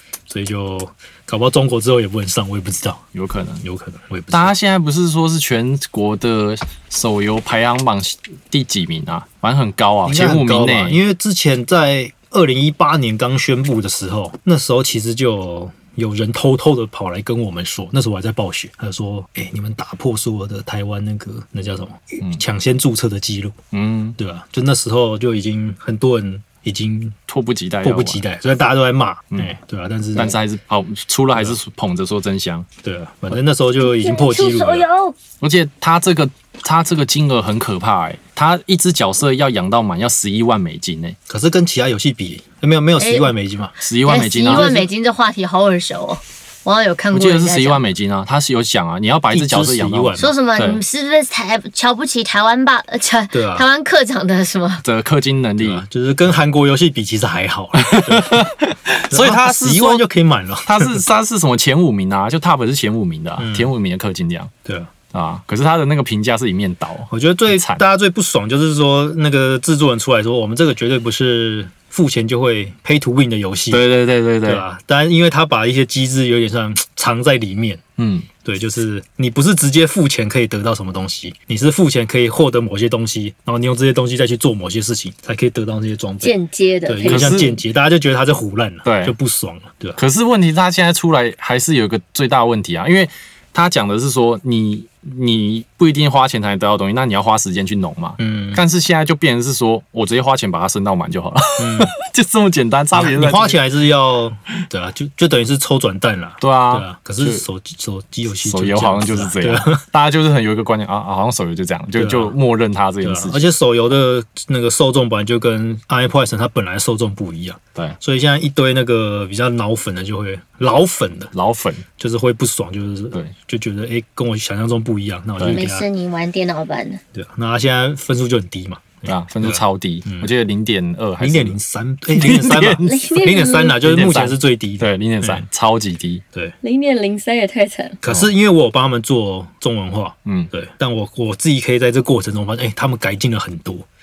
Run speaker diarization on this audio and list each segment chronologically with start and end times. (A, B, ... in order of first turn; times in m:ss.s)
0:00.3-0:03.0 A
0:03.1-0:03.6 B
0:03.6-0:04.6 A
0:04.3-0:11.0 B
0:10.0-0:23.6 A
0:23.7-0:24.2 B
0:24.2-0:27.2 A
0:27.3-0:28.2 B
0:27.8-0:30.4 A
0:30.1-0:32.7 B
0:32.8-0:34.9 A
0:33.8-0:35.1 C
0:35.4-0:41.2 B
0:41.3-0:43.7 A
0:43.0-0:43.3 C
0:43.8-0:44.8 B
0:44.0-0:47.8 C
0:44.4-0:44.8 A
0:47.1-0:50.8 B
0:49.3-0:50.4 A
0:50.2-0:54.8 C
0:53.3-0:53.6 A
0:54.8-0:55.8 B
0:55.6-0:58.4 A
0:57.8-1:00.0 B
0:59.1-1:01.0 A
1:00.6-1:04.5 B
1:03.4-1:03.7 A
1:04.6-1:04.9 A
1:05.1-1:07.8 B
1:07.1-1:13.8 A
1:13.7-1:14.6 B
1:14.4-1:17.8 A
1:18.0-1:18.3 B
1:18.4-1:26.3 A
1:26.2-1:27.6 C
1:26.8-1:30.0 A
1:27.1-1:27.5 B
1:28.8-1:29.1 B
1:30.0-1:43.6 B
1:38.2-1:38.6 A
1:41.6-1:41.9 A
1:42.9-1:49.8 A
1:46.4-1:47.4 B
1:48.4-1:53.4 B
1:52.0-1:52.4 A
1:53.0-2:01.3 A
2:01.3-2:01.8 B
2:02.0-2:05.8 A
2:05.4-2:05.6 B
2:05.4-2:07.0 C
2:07.1-2:10.3 A
2:09.0-2:11.6 B
2:11.2-2:15.4 A
2:12.1-2:12.8 B
2:12.8-2:13.8 C
2:13.8-2:16.2 B
2:16.6-2:18.0 C
2:18.0-2:23.8 A